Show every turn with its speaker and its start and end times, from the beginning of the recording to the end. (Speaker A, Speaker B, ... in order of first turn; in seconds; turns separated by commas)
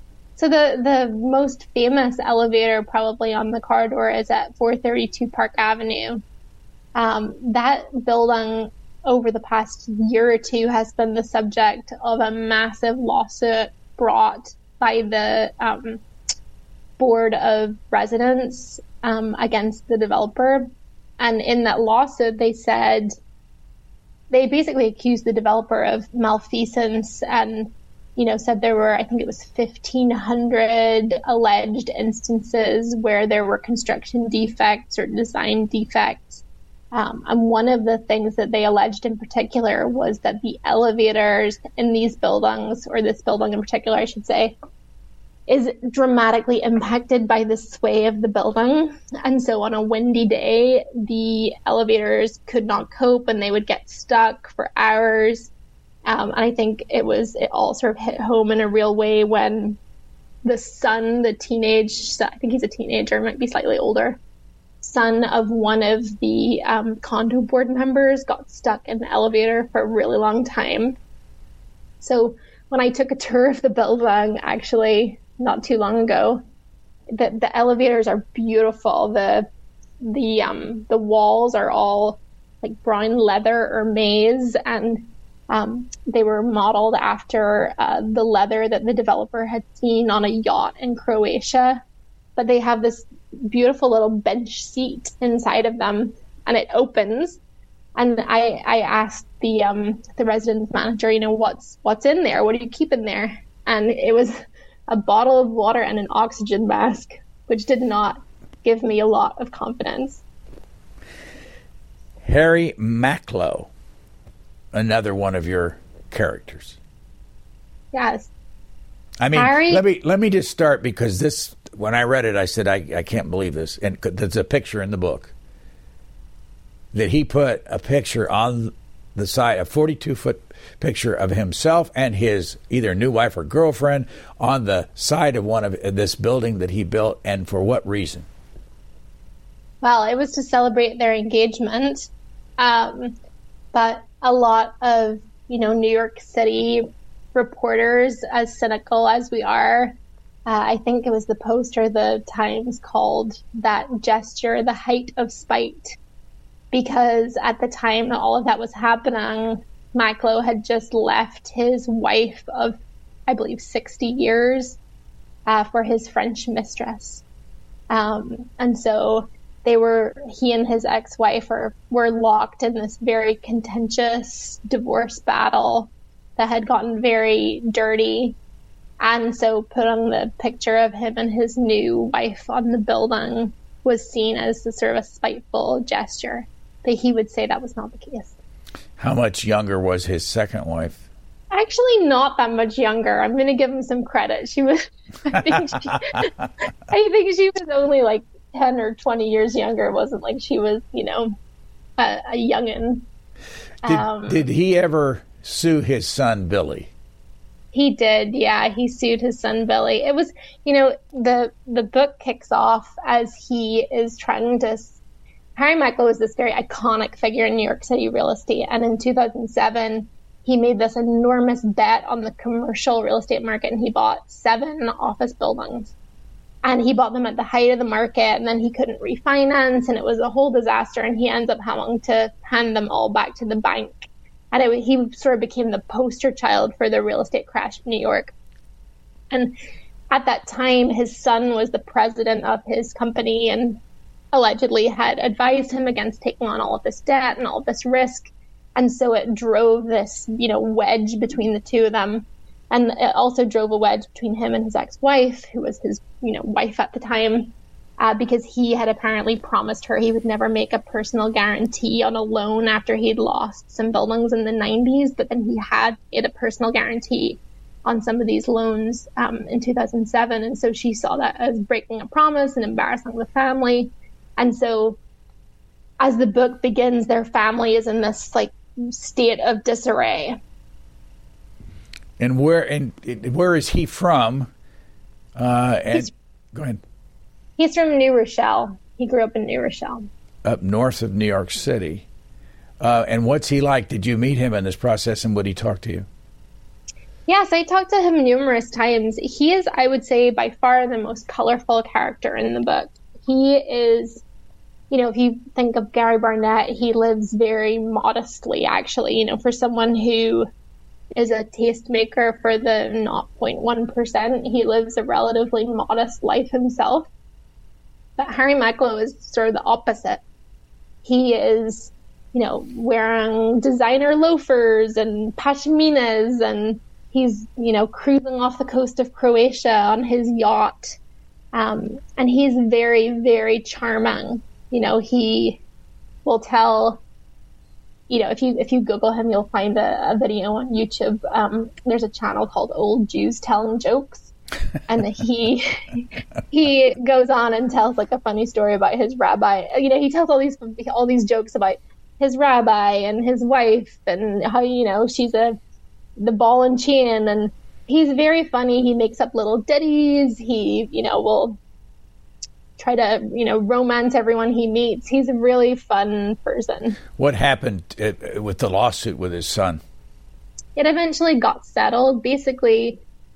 Speaker A: 0.4-6.2, Speaker A: 7.0-16.0, Speaker A: 17.0-20.7, Speaker A: 21.2-23.1, Speaker A: 24.3-44.6, Speaker A: 45.5-55.5, Speaker A: 56.0-59.8, Speaker A: 60.4-64.2, Speaker A: 64.8-71.0, Speaker A: 72.0-76.4, Speaker A: 77.1-79.5, Speaker A: 80.0-91.8, Speaker A: 92.4-97.4, Speaker A: 98.0-110.2, Speaker B: 112.2-113.7, Speaker B: 114.7-116.8, Speaker A: 117.9-118.3, Speaker B: 119.2-125.3, Speaker A: 119.3-119.8, Speaker B: 126.9-138.3, Speaker A: 139.8-142.1, Speaker A: 142.6-143.1, Speaker A: 143.7-150.0, Speaker A: 150.5-156.0, Speaker A: 156.7-164.8, Speaker A: 165.5-167.2, Speaker A: 167.9-178.4, Speaker A: 179.0-188.3, Speaker B: 189.0-191.1, Speaker A: 191.5-196.3, Speaker A: 196.9-201.3, Speaker A: 202.0-203.1, Speaker A: 203.8-204.4, Speaker B: 203.8-206.9, Speaker A: 207.7-215.0, Speaker A: 215.6-225.9, Speaker A: 226.6-238.3, Speaker A: 240.1-243.8, Speaker A: 244.3-275.0, Speaker A: 276.0-280.4, Speaker B: 282.2-284.5, Speaker B: 285.4-286.8, Speaker A: 287.6-290.1, Speaker B: 290.4-292.1, Speaker B: 292.8-296.1, Speaker A: 297.3-304.2, Speaker A: 304.9-310.5, Speaker A: 311.1-317.1, Speaker A: 318.2-320.2, Speaker A: 321.1-331.0, Speaker A: 331.5-335.6, Speaker A: 336.2-337.0, Speaker A: 338.1-344.3, Speaker A: 344.9-355.6, Speaker A: 356.2-361.6, Speaker A: 362.8-367.0, Speaker B: 367.2-369.8, Speaker A: 370.8-373.0